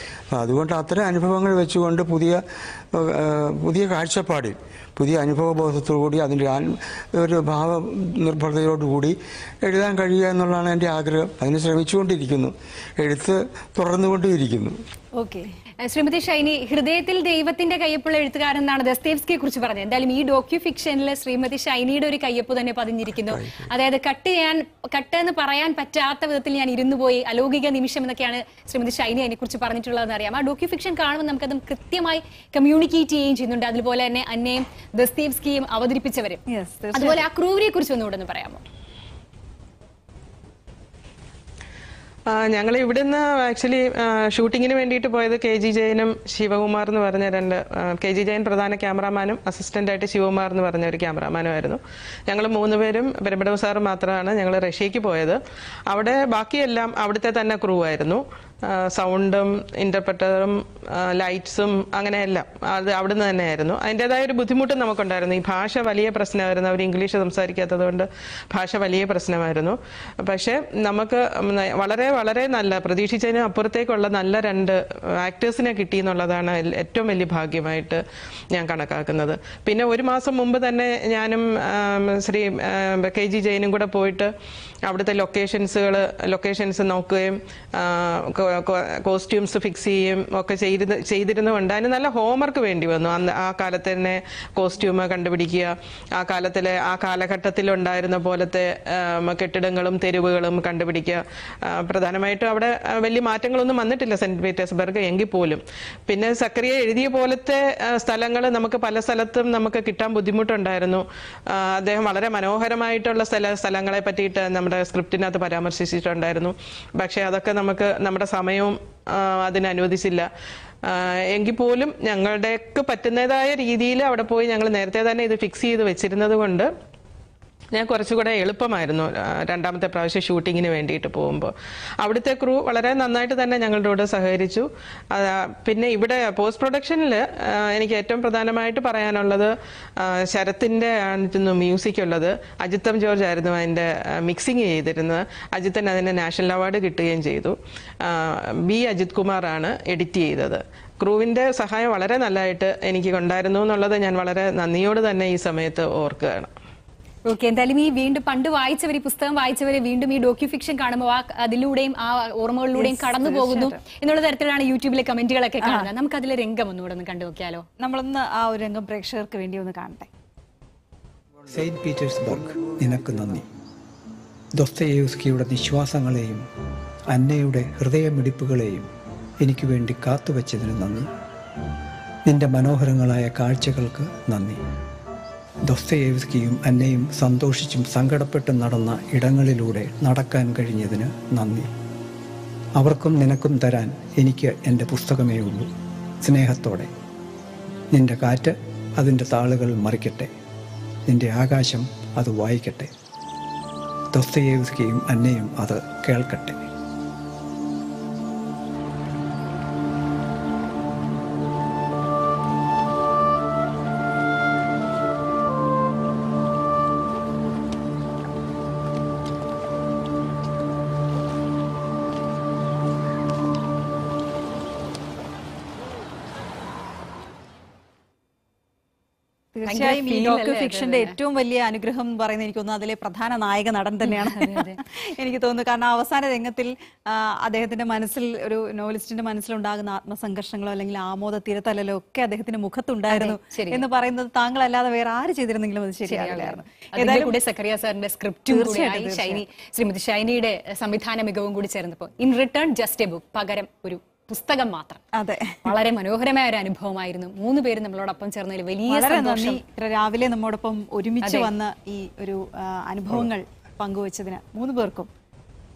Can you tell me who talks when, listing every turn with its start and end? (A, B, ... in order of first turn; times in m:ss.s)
0:00.3-0:02.4 A
0:02.9-0:14.8 A
0:15.2-0:15.5 B
0:15.8-0:36.4 C
0:23.2-0:23.5 A
0:36.5-0:37.2 B
0:36.9-0:38.6 C
0:42.3-1:18.0 D
1:18.5-1:24.3 D
1:24.9-2:00.3 D
2:00.8-2:06.7 D
2:07.7-2:36.5 D
2:37.2-2:47.6 C
2:42.8-2:43.8 B
2:45.6-2:45.9 B
2:47.8-2:50.1 B
2:51.5-2:53.5 E
2:54.5-2:56.4 E
2:57.1-2:58.9 E
2:59.4-3:01.1 E
3:02.2-3:04.6 E
3:05.6-3:11.7 E
3:12.8-3:15.7 E
3:16.2-3:16.9 E
3:17.9-3:20.3 E
3:21.1-3:22.9 E
3:24.1-3:26.7 E
3:49.5-4:07.4 B
3:49.7-3:51.2 C
3:54.0-3:54.8 C
4:03.1-4:03.8 C
4:06.0-4:15.0 C
4:08.5-4:09.4 B
4:15.1-4:15.7 B
4:15.6-4:19.6 C
4:18.9-4:25.1 B
4:21.2-4:21.5 C